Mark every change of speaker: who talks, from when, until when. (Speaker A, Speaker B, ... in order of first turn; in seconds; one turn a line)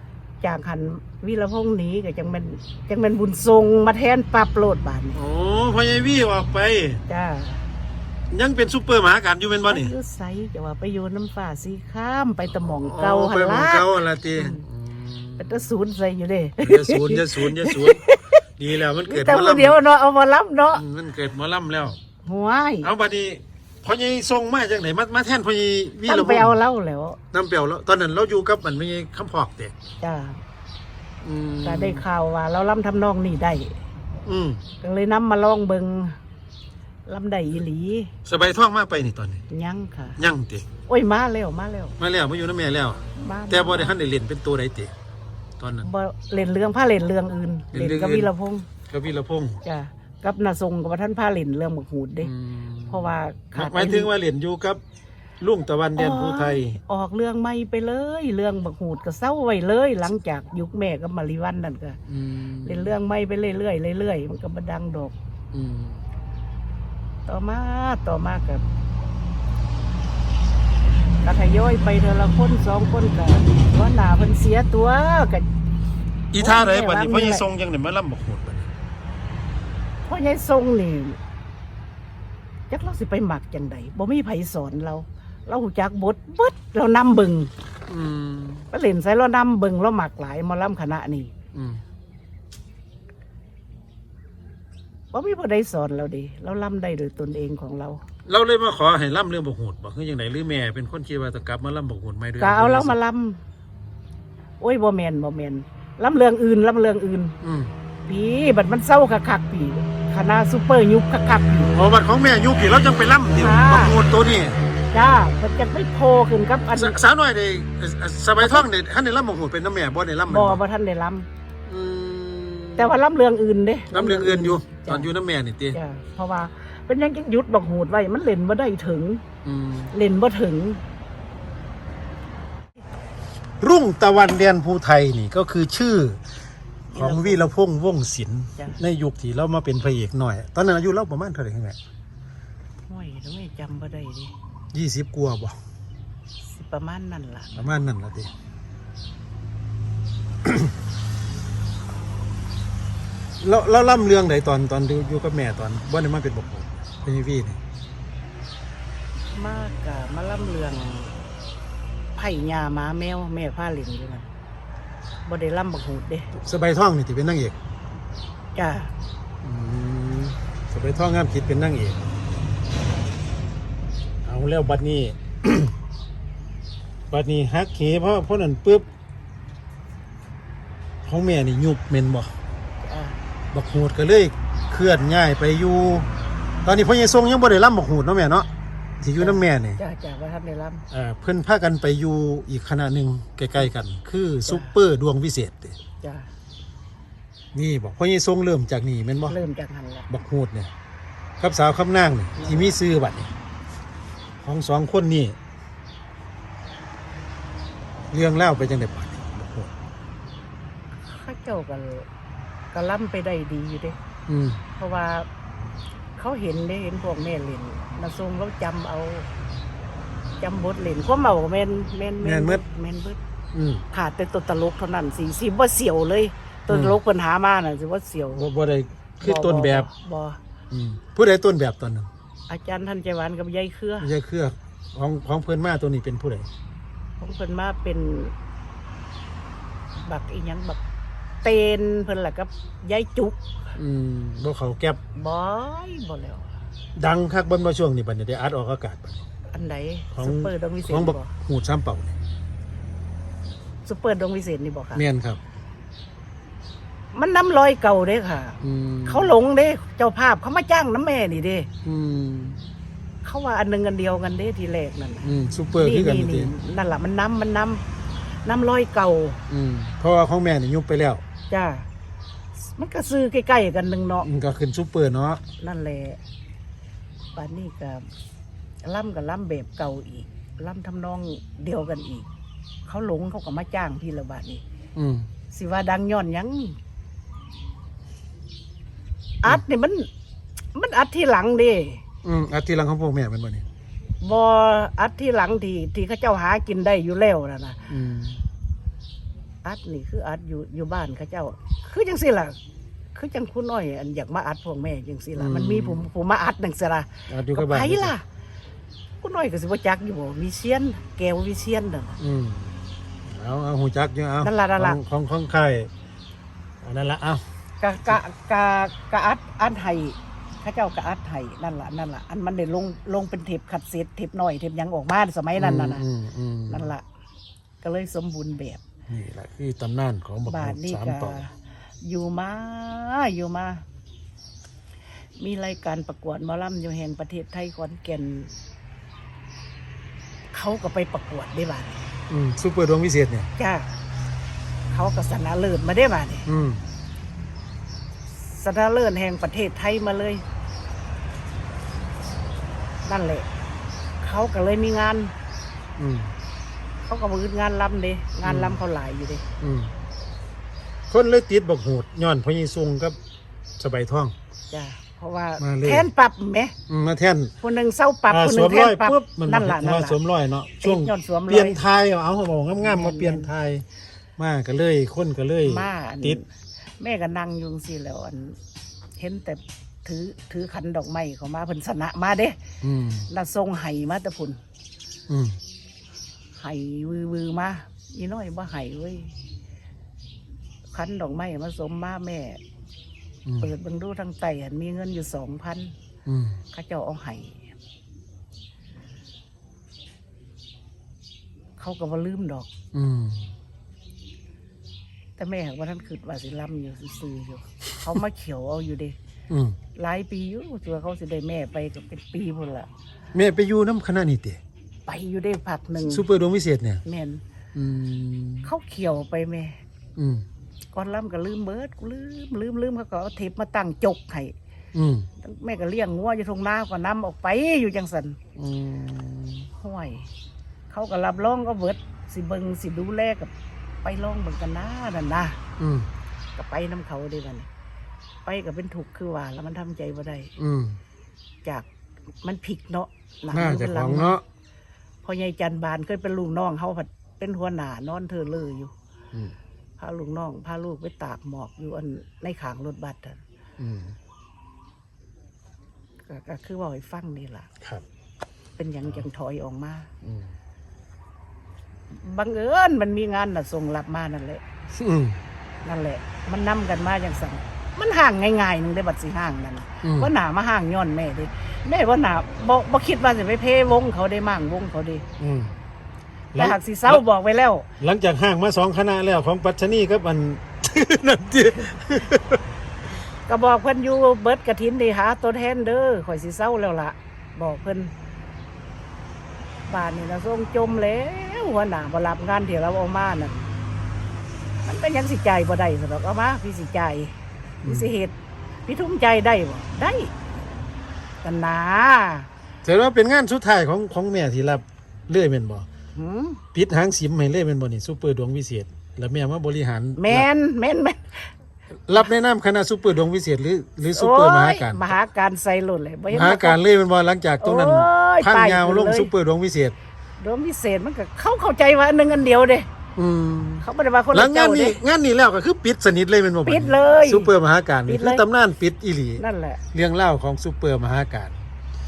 Speaker A: 0.4-5.2
Speaker B: 5.2-7.0
Speaker A: 7.1-7.6
Speaker B: 8.3-9.9
Speaker A: 9.7-14.6
Speaker B: 12.5-15.7
Speaker A: 15.4-18.4
Speaker B: 16.6-19.8
Speaker A: 19.0-20.8
Speaker B: 20.7-22.0
Speaker A: 22.2-22.9
Speaker B: 22.8-26.6
Speaker A: 26.0-27.2
Speaker B: 27.3-29.8
Speaker A: 30.0-30.4
Speaker B: 31.2-32.0
Speaker A: 31.6-33.8
Speaker B: 34.3-34.6
Speaker A: 34.8-36.2
Speaker A: 37.1-38.1
Speaker B: 38.3-39.4
Speaker A: 39.5-40.2
Speaker B: 40.2-40.7
Speaker A: 40.9-42.0
Speaker B: 42.0-44.9
Speaker A: 43.1-44.0
Speaker B: 45.6-45.9
Speaker A: 45.8-48.7
Speaker B: 47.7-48.3
Speaker B: 48.9-49.6
Speaker A: 49.6-52.3
Speaker B: 52.2-54.8
Speaker A: 52.9-54.1
Speaker B: 55.4-56.8
Speaker A: 56.0-62.0
Speaker B: 62.1-62.9
Speaker A: 62.6-65.2
Speaker B: 65.5-66.0
Speaker A: 67.3-68.6
Speaker A: 71.2-75.5
Speaker B: 76.3-78.7
Speaker A: 76.4-77.4
Speaker A: 80.1-81.2
Speaker A: 82.7-87.5
Speaker B: 87.9-88.7
Speaker A: 88.7-91.3
Speaker B: 91.5-91.8
Speaker A: 95.1-98.0
Speaker B: 98.3-103.0
Speaker A: 102.4-103.4
Speaker A: 104.6-107.3
Speaker B: 107.4-107.7
Speaker A: 108.1-111.7
Speaker B: 111.7-114.6
Speaker A: 113.3-114.0
Speaker A: 114.9-117.0
Speaker B: 116.7-120.6
Speaker A: 118.4-118.7
Speaker A: 120.3-121.3
Speaker B: 121.7-123.0
Speaker A: 122.8-125.1
Speaker B: 123.9-125.8
Speaker A: 125.7-129.2
Speaker B: 129.4-129.9
Speaker A: 129.9-130.8
Speaker B: 133.6-136.2
Speaker A: 136.9-137.5
Speaker B: 136.9-141.8
Speaker A: 138.6-138.8
Speaker A: 142.9-144.3
Speaker B: 144.7-145.6
Speaker A: 146.5-147.5
Speaker B: 147.6-148.3
Speaker B: 150.4-150.7
Speaker B: 153.4-157.6
Speaker A: 159.3-161.2
Speaker A: 162.2-164.3
Speaker A: 165.3-166.3
Speaker B: 166.4-167.6
Speaker A: 168.6-168.9
Speaker B: 169.4-172.1
Speaker B: 174.2-175.8
Speaker B: 177.1-178.9
Speaker B: 181.0-182.3
Speaker A: 182.8-183.2
Speaker B: 183.5-186.1
Speaker B: 186.7-188.5
Speaker B: 189.0-189.8
Speaker A: 189.2-190.8
Speaker B: 190.9-195.8
Speaker A: 194.5-194.8
Speaker A: 196.0-196.3
Speaker B: 197.6-199.4
Speaker A: 199.3-200.1
Speaker B: 200.1-200.7
Speaker B: 201.4-203.3
Speaker A: 202.4-202.8
Speaker B: 204.4-205.4
Speaker B: 208.1-209.7
Speaker A: 211.1-212.1
Speaker A: 212.7-214.0
Speaker B: 214.3-214.6
Speaker A: 214.8-215.3
Speaker A: 216.2-219.3
Speaker A: 220.4-223.2
Speaker B: 222.2-222.6
Speaker B: 223.5-223.8
Speaker A: 223.9-228.5
Speaker B: 226.7-227.0
Speaker B: 228.3-229.9
Speaker A: 229.2-230.4
Speaker B: 230.7-232.1
Speaker A: 232.5-234.1
Speaker B: 234.0-236.5
Speaker A: 237.2-238.3
Speaker A: 240.0-240.8
Speaker A: 241.4-243.4
Speaker B: 243.8-245.0
Speaker A: 245.2-246.5
Speaker B: 247.0-249.3
Speaker A: 249.5-251.3
Speaker B: 250.1-252.2
Speaker A: 253.9-255.0
Speaker B: 254.9-255.4
Speaker A: 257.1-261.7
Speaker B: 258.6-259.3
Speaker B: 261.8-262.6
Speaker A: 263.2-265.3
Speaker B: 265.2-266.5
Speaker A: 265.8-267.8
Speaker A: 268.4-269.4
Speaker B: 269.5-271.2
Speaker A: 271.5-271.9
Speaker A: 272.7-274.3
Speaker B: 274.2-275.4
Speaker A: 275.6-276.2
Speaker A: 277.4-278.1
Speaker A: 278.8-282.3
Speaker A: 282.9-284.6
Speaker B: 284.9-285.3
Speaker A: 285.5-286.8
Speaker A: 289.4-290.1
Speaker A: 290.8-292.0
Speaker B: 292.2-293.7
Speaker A: 294.2-297.8
Speaker B: 297.9-298.4
Speaker A: 299.6-302.6
Speaker A: 303.1-308.2
Speaker B: 305.4-306.1
Speaker B: 307.3-308.1
Speaker A: 309.2-312.2
Speaker B: 312.2-312.7
Speaker B: 313.3-315.9
Speaker A: 314.4-315.0
Speaker B: 316.8-317.4
Speaker A: 317.8-326.0
Speaker B: 325.6-326.9
Speaker A: 326.7-327.0
Speaker A: 327.8-328.8
Speaker B: 329.1-331.4
Speaker A: 330.5-333.8
Speaker A: 335.4-338.5
Speaker A: 340.5-342.1
Speaker B: 342.3-343.5
Speaker A: 343.6-343.9
Speaker A: 344.9-346.5
Speaker B: 346.5-346.9
Speaker A: 348.5-350.4
Speaker A: 353.1-353.5
Speaker A: 354.2-355.3
Speaker B: 356.0-356.3
Speaker A: 357.1-359.4
Speaker B: 358.4-358.8
Speaker B: 359.6-359.9
Speaker B: 361.1-363.2
Speaker B: 363.8-364.4
Speaker A: 364.7-366.8
Speaker B: 365.6-366.1
Speaker B: 366.9-367.5
Speaker A: 367.6-370.2
Speaker B: 368.3-373.9
Speaker A: 370.8-371.8
Speaker A: 372.8-373.5
Speaker B: 374.4-376.4
Speaker A: 375.6-376.4
Speaker A: 377.0-378.6
Speaker A: 379.2-382.6
Speaker B: 382.8-383.3
Speaker A: 383.3-384.6
Speaker B: 385.3-385.6
Speaker A: 386.6-389.3
Speaker A: 390.9-392.6
Speaker B: 393.5-393.7
Speaker A: 393.6-395.9
Speaker B: 396.3-396.6
Speaker A: 396.7-397.6
Speaker A: 401.8-402.7
Speaker B: 402.9-403.5
Speaker A: 405.4-409.2
Speaker B: 409.5-409.8
Speaker A: 409.9-412.9
Speaker B: 413.3-414.6
Speaker A: 415.1-416.2
Speaker B: 416.1-417.0
Speaker A: 417.1-417.4
Speaker B: 417.7-418.7
Speaker A: 418.6-419.8
Speaker B: 420.2-420.5
Speaker A: 420.9-424.5
Speaker B: 424.9-425.3
Speaker A: 425.4-428.4
Speaker B: 428.6-429.7
Speaker A: 429.8-430.3
Speaker A: 430.9-433.5
Speaker A: 434.0-435.6
Speaker B: 435.8-436.1
Speaker A: 436.6-437.7
Speaker A: 438.4-440.5
Speaker B: 440.6-441.0
Speaker A: 442.4-444.4
Speaker B: 443.5-444.4
Speaker A: 445.2-448.9
Speaker A: 450.0-453.4
Speaker B: 453.8-454.1
Speaker A: 456.2-457.7
Speaker A: 458.8-460.1
Speaker B: 460.2-460.5
Speaker A: 462.1-464.6
Speaker B: 464.9-465.4
Speaker A: 465.9-475.3
Speaker B: 470.0-470.3
Speaker B: 475.4-475.7
Speaker B: 476.5-477.2
Speaker A: 476.6-477.9
Speaker B: 478.0-482.6
Speaker A: 483.5-488.1
Speaker A: 489.9-493.6
Speaker A: 494.9-498.3
Speaker B: 497.8-498.1
Speaker A: 498.9-500.3
Speaker A: 501.4-502.5
Speaker B: 502.8-505.9
Speaker A: 506.1-506.6
Speaker B: 506.7-510.5
Speaker A: 510.2-511.5
Speaker B: 512.1-515.1
Speaker A: 514.1-516.8
Speaker B: 516.3-520.0
Speaker A: 517.6-519.3
Speaker A: 520.4-522.9
Speaker B: 523.2-529.4
Speaker A: 523.8-525.0
Speaker A: 526.6-527.5
Speaker A: 528.1-528.5
Speaker A: 529.4-529.9
Speaker B: 529.9-531.6